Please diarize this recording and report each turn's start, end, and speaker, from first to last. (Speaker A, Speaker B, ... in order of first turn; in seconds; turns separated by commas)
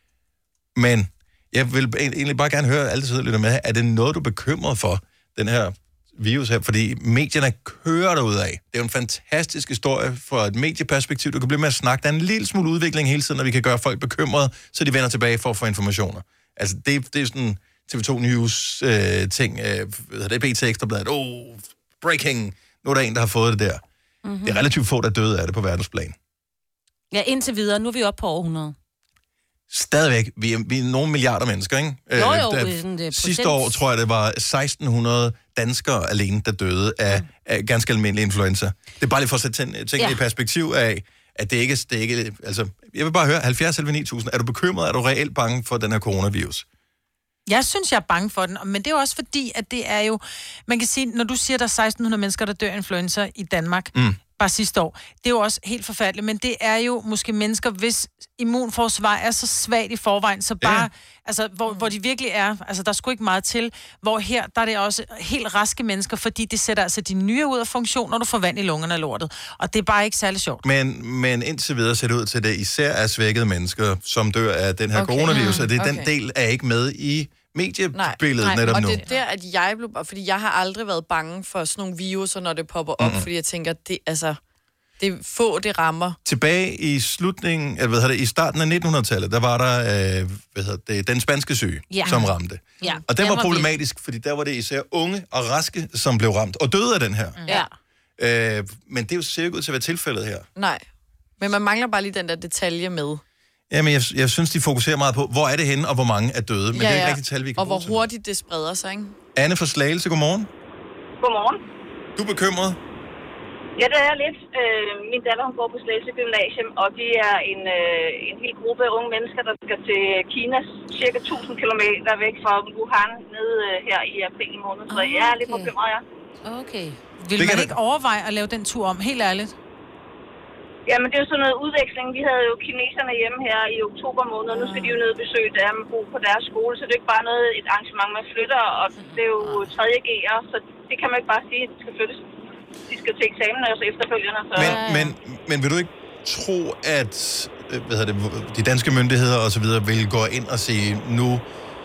Speaker A: 0.8-23.8, Speaker B: 24.2-24.6, Speaker A: 24.4-26.1, Speaker B: 27.1-28.8, Speaker A: 29.7-46.7, Speaker B: 32.1-33.8, Speaker C: 47.5-70.6, Speaker A: 53.9-54.2, Speaker A: 60.6-60.9, Speaker A: 70.6-79.0, Speaker D: 75.0-76.1, Speaker B: 75.3-75.6, Speaker D: 77.9-84.4, Speaker C: 78.4-79.2, Speaker A: 83.0-83.3, Speaker D: 85.0-86.2, Speaker A: 86.2-97.4, Speaker B: 91.9-93.7, Speaker B: 97.5-97.7, Speaker A: 98.2-100.5, Speaker D: 100.6-100.8, Speaker D: 101.4-103.2, Speaker A: 103.7-108.1, Speaker D: 106.7-109.2, Speaker A: 109.3-110.5, Speaker E: 111.2-111.6, Speaker A: 112.2-112.8, Speaker E: 113.8-126.0, Speaker B: 124.9-125.7, Speaker B: 126.5-127.0, Speaker C: 127.2-129.5, Speaker A: 127.4-127.8, Speaker E: 130.9-142.2, Speaker B: 134.5-135.0, Speaker E: 142.9-144.8, Speaker A: 144.6-151.4, Speaker B: 144.6-145.2